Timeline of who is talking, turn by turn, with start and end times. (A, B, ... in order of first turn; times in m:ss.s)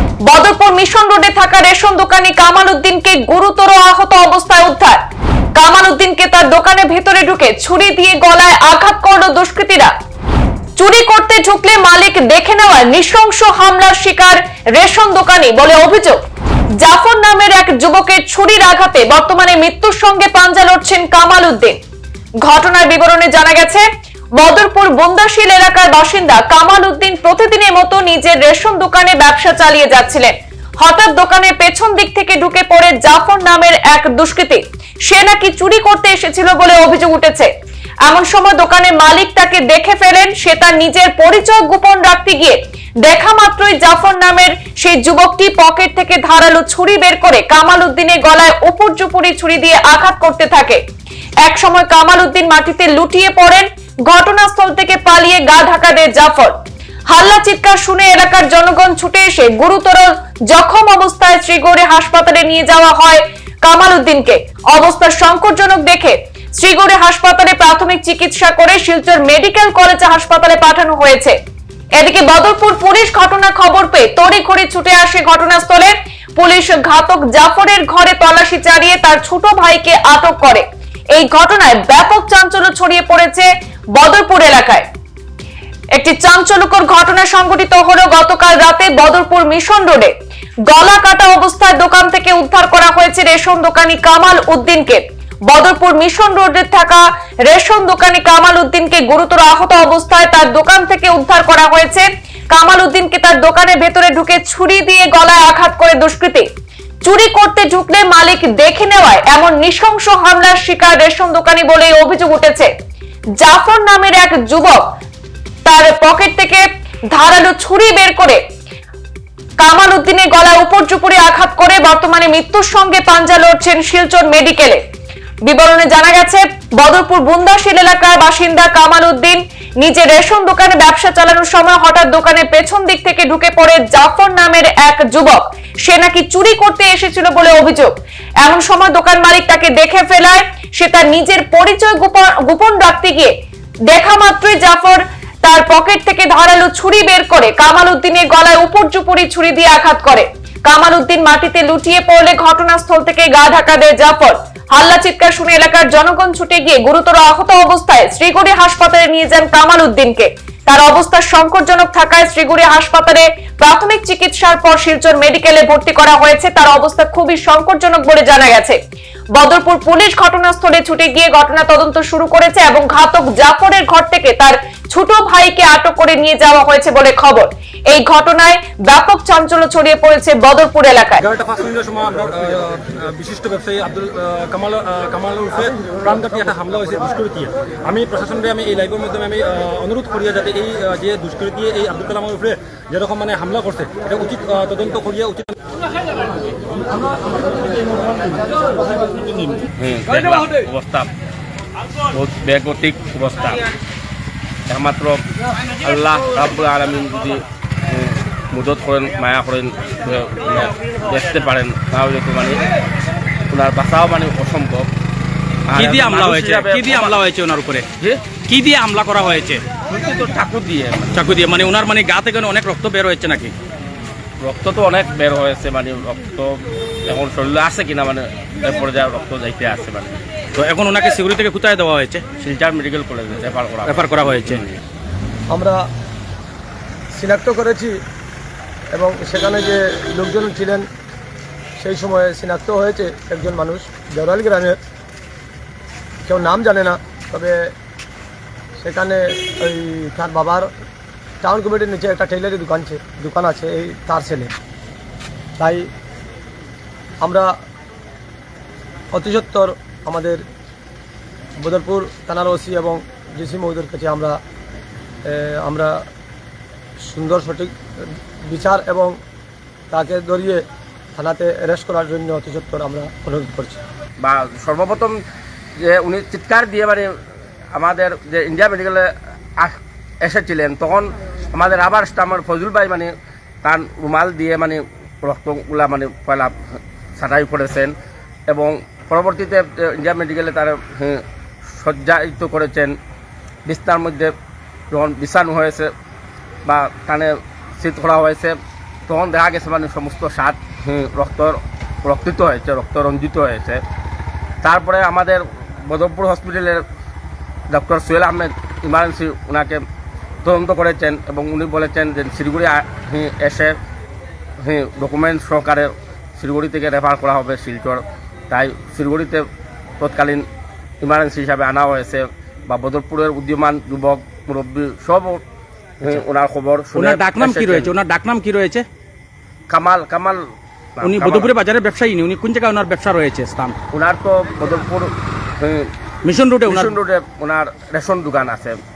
0:00.2-0:05.0 A
0:05.5-0:09.9 A
0:10.8-0:16.2 A
0:16.8-0:21.8 A
0:22.4-0:23.8 A
0:24.4-0:37.5 A
0:38.0-0:50.8 A
0:51.4-0:56.6 A
0:57.1-1:11.4 A
1:12.0-1:24.8 A
1:25.9-1:30.1 A
1:30.7-1:46.4 A
1:47.0-1:52.7 A
1:53.4-1:54.8 A
1:55.6-1:58.4 A
1:59.6-2:04.8 A
2:05.4-2:23.3 A
2:23.9-2:48.8 A
2:49.3-3:01.2 A
3:01.2-3:15.6 B
3:19.8-3:21.1 C
3:22.1-3:23.6 C
3:24.7-3:25.2 C
3:25.8-3:32.6 C
3:33.5-3:34.9 C
3:35.7-3:37.2 C
3:35.7-3:39.6 D
3:38.0-3:38.2 C
3:39.9-3:41.1 C
3:41.1-3:43.5 D
3:44.4-3:50.2 C
3:50.6-3:52.3 D
3:52.3-3:54.1 C
3:53.8-3:54.6 D
3:55.5-3:55.8 E
3:57.1-3:58.0 E
3:58.9-4:00.9 E
4:01.8-4:04.8 E
4:06.3-4:07.7 E
4:08.8-4:10.7 E
4:11.4-4:14.5 E
4:15.6-4:15.9 E
4:17.2-4:17.5 E
4:19.1-4:20.4 E
4:21.6-4:24.4 E
4:25.2-4:26.0 E
4:27.1-4:27.7 E
4:28.5-4:29.2 E
4:29.9-4:30.6 E
4:31.2-4:33.8 E
4:34.2-4:35.1 C
4:35.8-4:37.1 C
4:37.7-4:43.1 C
4:43.6-4:46.5 C
4:47.2-4:47.9 C
4:48.5-4:51.2 C
4:51.8-4:52.9 C
4:53.6-4:54.3 C
4:54.9-4:55.9 C
4:56.6-4:58.5 C
4:59.1-5:03.8 C
5:04.6-5:06.8 C
5:07.7-5:09.8 C
5:10.4-5:13.7 C
5:14.6-5:19.4 C
5:20.0-5:20.4 C
5:21.0-5:25.4 C
5:26.0-5:27.9 C
5:26.9-5:28.8 D
5:29.7-5:30.4 C
5:31.0-5:31.5 C
5:31.0-5:33.8 D
5:33.9-5:35.1 C
5:35.6-5:35.9 C
5:36.2-5:36.9 D
5:36.6-5:38.8 C